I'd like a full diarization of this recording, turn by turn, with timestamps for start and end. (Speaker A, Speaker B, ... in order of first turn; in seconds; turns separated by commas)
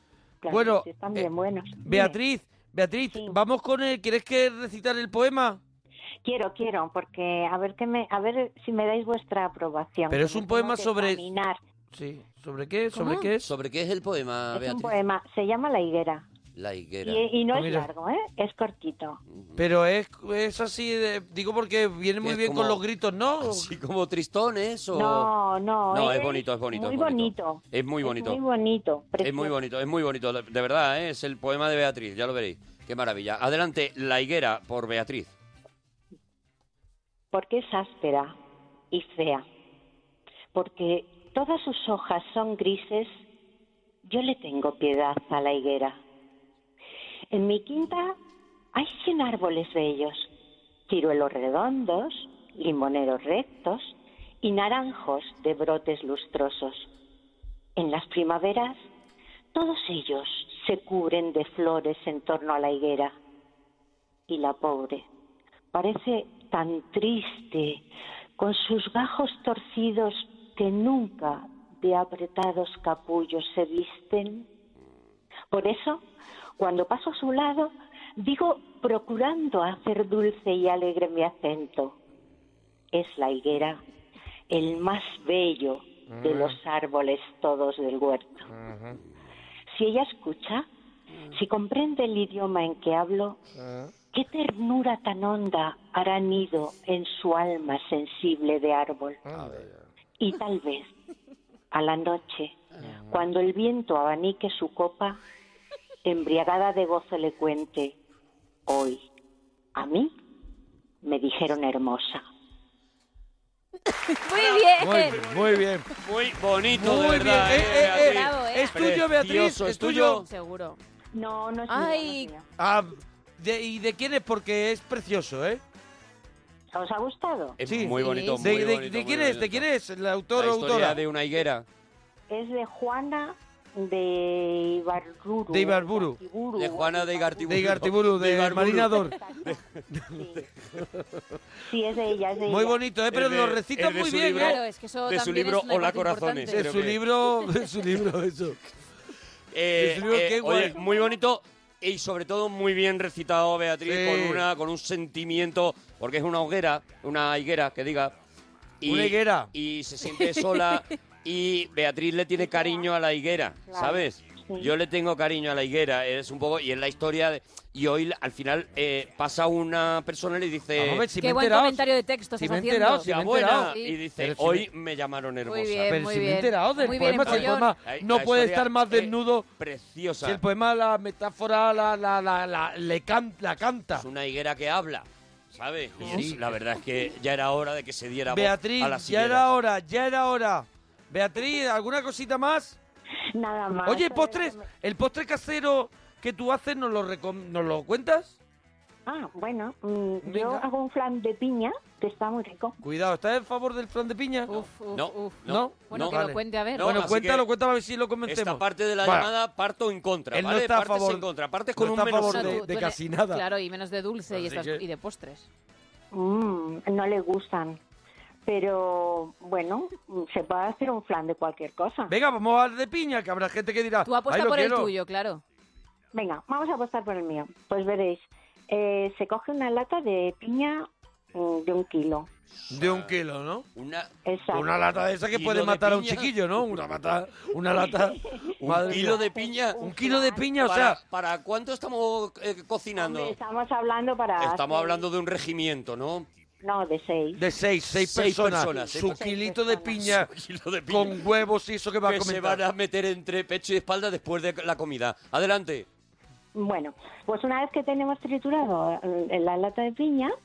Speaker A: 0.4-2.2, Speaker B: 0.5-1.2, Speaker B: 1.8-5.6, Speaker A: 3.1-3.4, Speaker A: 6.2-11.6, Speaker B: 10.1-11.2, Speaker B: 11.9-13.5, Speaker C: 13.4-14.9, Speaker A: 14.5-16.3, Speaker C: 16.6-17.3, Speaker A: 17.0-19.2, Speaker B: 17.5-17.9, Speaker C: 19.3-19.6, Speaker B: 19.6-23.7, Speaker C: 22.2-22.8, Speaker C: 23.4-25.3, Speaker A: 24.9-29.6, Speaker C: 25.9-28.4, Speaker C: 29.2-35.3, Speaker A: 37.3-38.4, Speaker A: 38.9-39.5, Speaker A: 40.5-43.1, Speaker A: 44.0-46.0, Speaker A: 47.3-48.2, Speaker A: 48.7-50.3, Speaker A: 50.9-56.9, Speaker A: 57.8-58.9, Speaker A: 59.5-63.2, Speaker A: 64.3-65.1, Speaker A: 65.7-67.8, Speaker A: 68.4-74.5, Speaker A: 75.5-76.0, Speaker A: 76.6-82.0, Speaker A: 82.9-83.8, Speaker A: 84.5-88.5, Speaker B: 86.1-86.6, Speaker B: 88.6-89.0, Speaker A: 89.7-90.7, Speaker A: 91.3-93.4, Speaker B: 93.6-93.9, Speaker A: 94.1-99.2, Speaker B: 99.3-99.7, Speaker C: 99.3-99.7, Speaker A: 100.2-100.9, Speaker A: 101.7-102.6, Speaker B: 102.8-103.2, Speaker A: 103.1-105.2, Speaker A: 106.0-108.0, Speaker A: 108.7-109.0, Speaker A: 109.8-110.1, Speaker A: 111.0-112.2, Speaker D: 113.9-115.2, Speaker B: 114.8-115.9, Speaker C: 116.0-120.3, Speaker B: 116.7-120.2, Speaker D: 117.8-118.8, Speaker D: 120.1-120.8, Speaker A: 121.2-122.4, Speaker D: 121.7-122.3, Speaker B: 122.6-125.6, Speaker A: 126.8-127.6, Speaker C: 127.6-129.7, Speaker B: 127.7-131.0, Speaker D: 127.9-128.6, Speaker C: 130.3-131.7, Speaker A: 132.3-137.8, Speaker B: 135.5-136.2, Speaker C: 136.6-140.7, Speaker B: 137.5-139.2, Speaker A: 139.2-139.6, Speaker A: 140.1-140.4, Speaker A: 141.7-142.8, Speaker B: 142.5-144.6, Speaker C: 143.1-147.0, Speaker D: 144.3-146.7, Speaker B: 146.5-148.6, Speaker C: 149.5-158.1, Speaker B: 149.8-150.8, Speaker B: 153.8-154.5, Speaker C: 158.8-171.1, Speaker B: 158.9-159.5, Speaker D: 160.3-160.8, Speaker A: 162.4-162.8, Speaker A: 163.7-164.7, Speaker B: 170.8-171.9, Speaker D: 171.2-173.9, Speaker B: 172.4-174.7, Speaker C: 173.0-176.0, Speaker D: 175.4-177.7, Speaker B: 175.9-179.5, Speaker C: 176.8-180.4, Speaker B: 180.2-184.1, Speaker C: 183.9-189.5, Speaker B: 186.0-186.4, Speaker B: 188.3-192.8, Speaker A: 193.3-194.7, Speaker B: 193.9-198.4, Speaker A: 199.1-202.8, Speaker B: 200.2-200.7, Speaker B: 202.8-204.5, Speaker D: 204.5-207.0, Speaker C: 204.9-206.2, Speaker B: 205.5-209.3, Speaker C: 206.7-207.5, Speaker C: 208.3-212.6, Speaker B: 210.3-213.4, Speaker D: 212.2-215.5, Speaker B: 214.3-214.8, Speaker A: 216.1-217.8, Speaker A: 218.5-222.1, Speaker B: 222.1-224.9, Speaker D: 224.1-225.4, Speaker A: 226.1-232.3, Speaker C: 232.6-233.2, Speaker B: 232.7-233.7, Speaker C: 233.8-234.1, Speaker A: 234.2-234.7, Speaker B: 234.5-239.2, Speaker C: 235.3-236.3, Speaker A: 238.3-240.5, Speaker C: 238.6-239.8, Speaker B: 239.8-241.0, Speaker C: 240.6-243.3, Speaker A: 243.0-245.1, Speaker C: 244.4-246.3, Speaker A: 246.6-247.4, Speaker B: 247.4-250.3, Speaker C: 247.9-249.2, Speaker A: 248.8-250.0, Speaker C: 250.0-251.2, Speaker B: 250.9-252.6, Speaker C: 252.0-255.9, Speaker A: 256.6-260.4